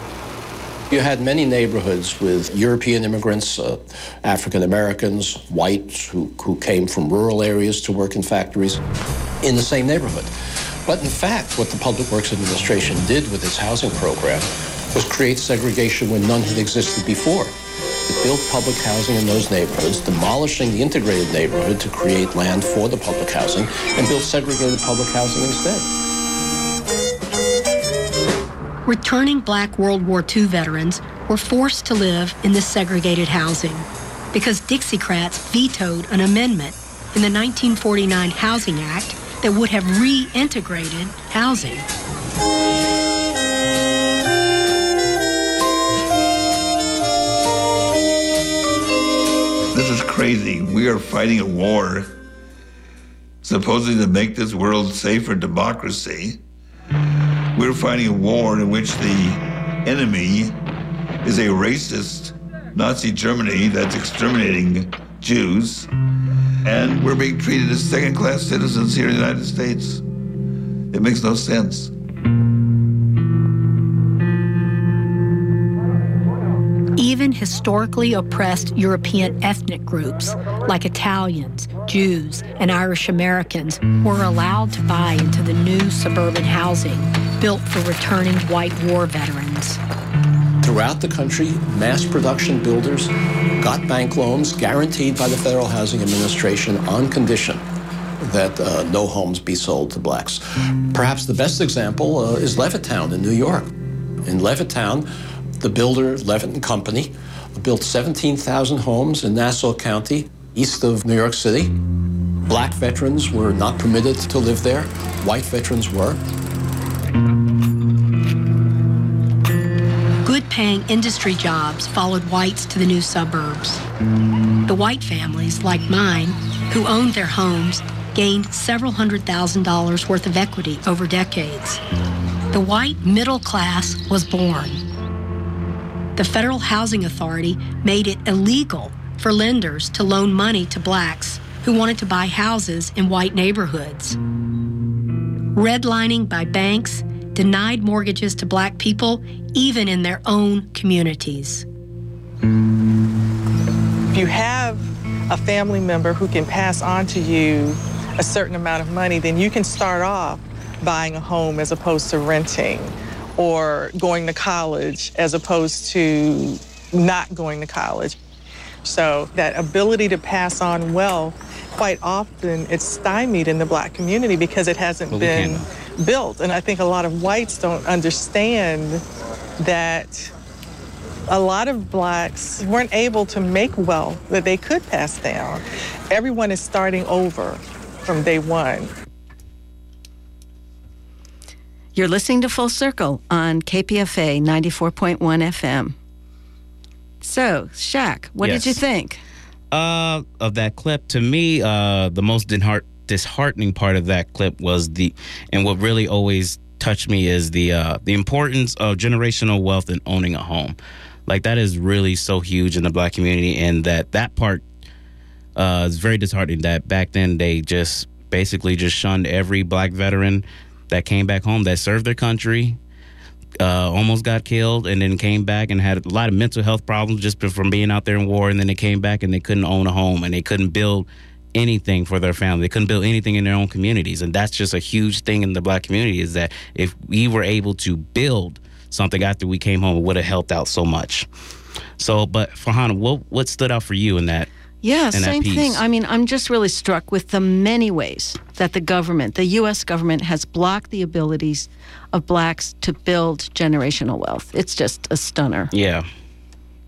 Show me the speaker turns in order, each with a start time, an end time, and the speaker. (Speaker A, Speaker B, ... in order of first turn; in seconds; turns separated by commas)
Speaker A: 0.9-8.8, Speaker A: 9.4-10.3, Speaker A: 10.9-17.6, Speaker A: 18.1-25.9, Speaker B: 28.9-41.9, Speaker C: 49.7-52.2, Speaker C: 53.4-56.4, Speaker C: 57.5-60.6, Speaker C: 61.2-65.9, Speaker C: 66.6-70.0, Speaker C: 70.9-71.9, Speaker B: 77.0-89.8, Speaker A: 90.6-97.6, Speaker A: 98.2-103.7, Speaker A: 104.2-111.7, Speaker A: 112.5-116.2, Speaker B: 120.2-123.8, Speaker B: 124.7-131.8, Speaker B: 132.5-134.8, Speaker B: 136.2-144.2, Speaker B: 145.6-151.7, Speaker D: 154.1-168.2, Speaker D: 168.8-179.0, Speaker E: 175.1-175.7, Speaker D: 179.6-180.3, Speaker D: 181.3-188.9, Speaker F: 191.9-195.9, Speaker F: 197.2-199.2, Speaker E: 198.4-198.8, Speaker E: 199.7-210.8, Speaker E: 211.3-214.6, Speaker E: 215.6-222.8, Speaker E: 223.6-241.3, Speaker E: 242.0-244.5, Speaker F: 244.8-255.7, Speaker E: 245.1-245.8, Speaker E: 255.7-256.1